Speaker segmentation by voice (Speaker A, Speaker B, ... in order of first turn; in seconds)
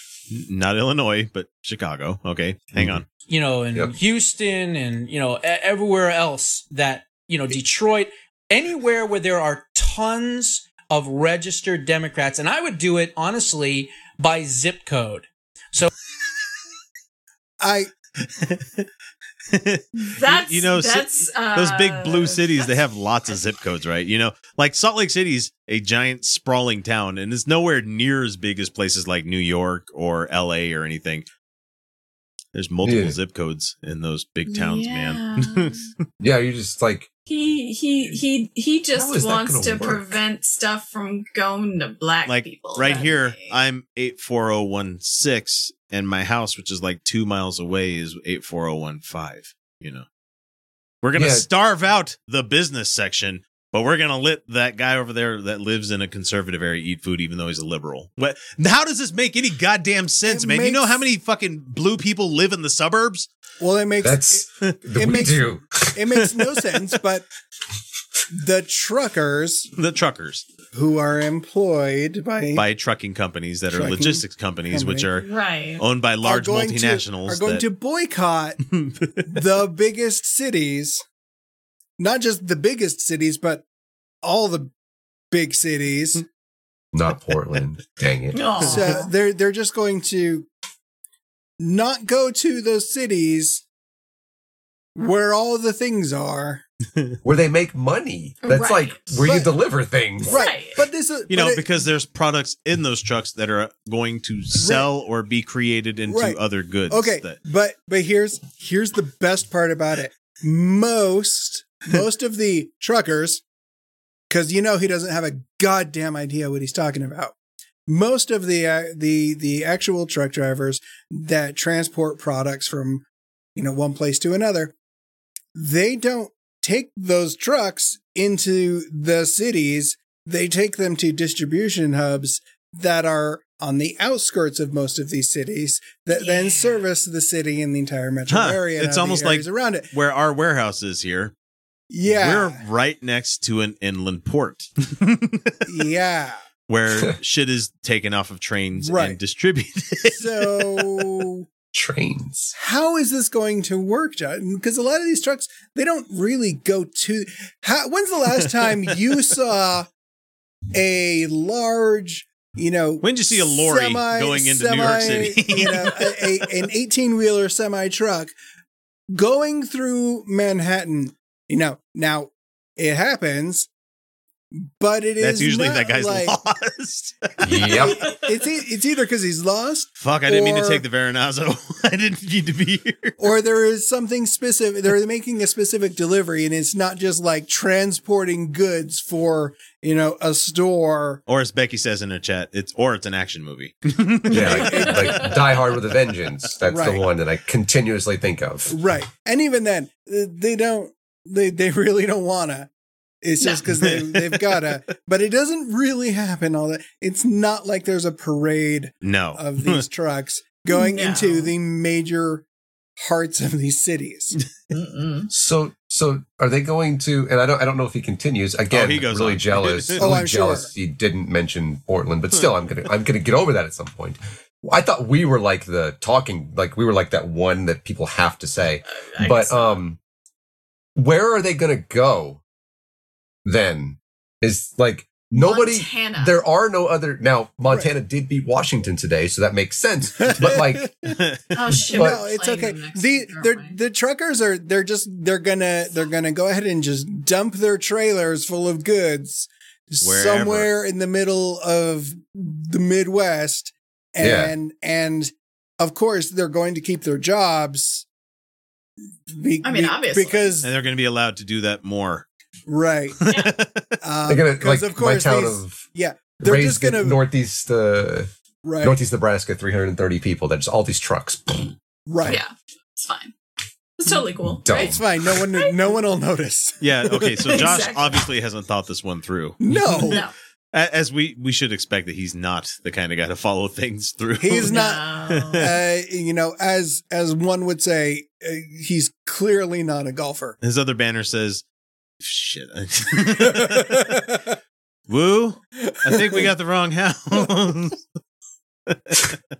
Speaker A: 0.3-3.0, 18.2-18.9, 19.5-31.3, 32.5-35.9, 42.2-50.1, 51.0-63.3, 69.8-70.5, 72.5-77.7, 78.7-79.4, 101.3-107.4, 138.3-141.3, 142.0-145.7, 146.7-151.1, 163.0-166.5, 175.2-177.8, 180.0-183.2, 191.3-195.0, 203.7-204.7, 209.0-209.8, 218.7-220.1, 241.1-241.5, 250.0-250.7, 260.6-262.2, 263.2-264.0, 276.8-285.6, 290.6-291.6, 292.2-294.1, 295.1-298.0, 298.9-299.4
Speaker B: 2.8-3.0, 32.8-33.2, 36.2-37.1, 38.9-40.2, 51.1-51.5, 64.0-66.0, 86.9-88.5, 97.2-100.4, 151.7-152.5, 177.4-178.1, 194.3-198.8, 215.3-230.0, 230.9-232.4, 233.4-240.9, 241.7-242.2, 254.2-254.6, 264.2-265.9, 266.4-268.3, 268.8-271.7, 274.6-275.0
Speaker C: 3.2-15.9
Speaker D: 17.6-17.9, 60.2-61.0, 63.6-67.2, 68.3-69.7, 70.7-72.6, 73.7-75.1, 76.2-78.6, 79.2-81.0, 82.0-83.6, 84.2-84.7, 85.3-86.2, 88.6-90.5, 91.6-93.6, 94.9-96.6, 99.2-99.5, 100.3-101.7, 104.6-104.9, 106.1-113.4, 114.3-117.3, 117.9-124.7, 125.5-139.9, 141.9-142.6, 145.7-146.4, 148.8-149.2, 150.1-151.5, 152.6-159.9, 160.7-168.3, 169.1-173.7, 174.6-176.3, 177.7-180.8, 183.2-191.2, 194.4-195.3, 196.7-197.1, 198.7-202.7, 203.2-212.4, 213.0-214.4, 220.0-220.7, 240.2-240.8, 241.9-258.1, 259.3-260.7, 262.7-263.2, 264.0-267.2, 268.6-269.0, 272.1-272.4, 274.7-277.7, 279.6-280.2, 284.4-290.6, 293.6-294.1, 295.9-296.4
Speaker E: 20.0-22.7, 34.5-35.9, 37.3-43.5, 75.2-75.8, 88.3-89.1, 98.4-99.1, 100.3-100.8, 136.1-136.8, 177.8-178.2, 194.3-195.6, 203.4-203.7, 210.7-211.5, 214.7-215.3, 228.9-229.8, 235.3-236.4, 241.5-243.8, 259.6-260.5, 272.2-273.3, 274.0-275.8, 277.5-278.2, 280.0-280.3, 284.7-285.7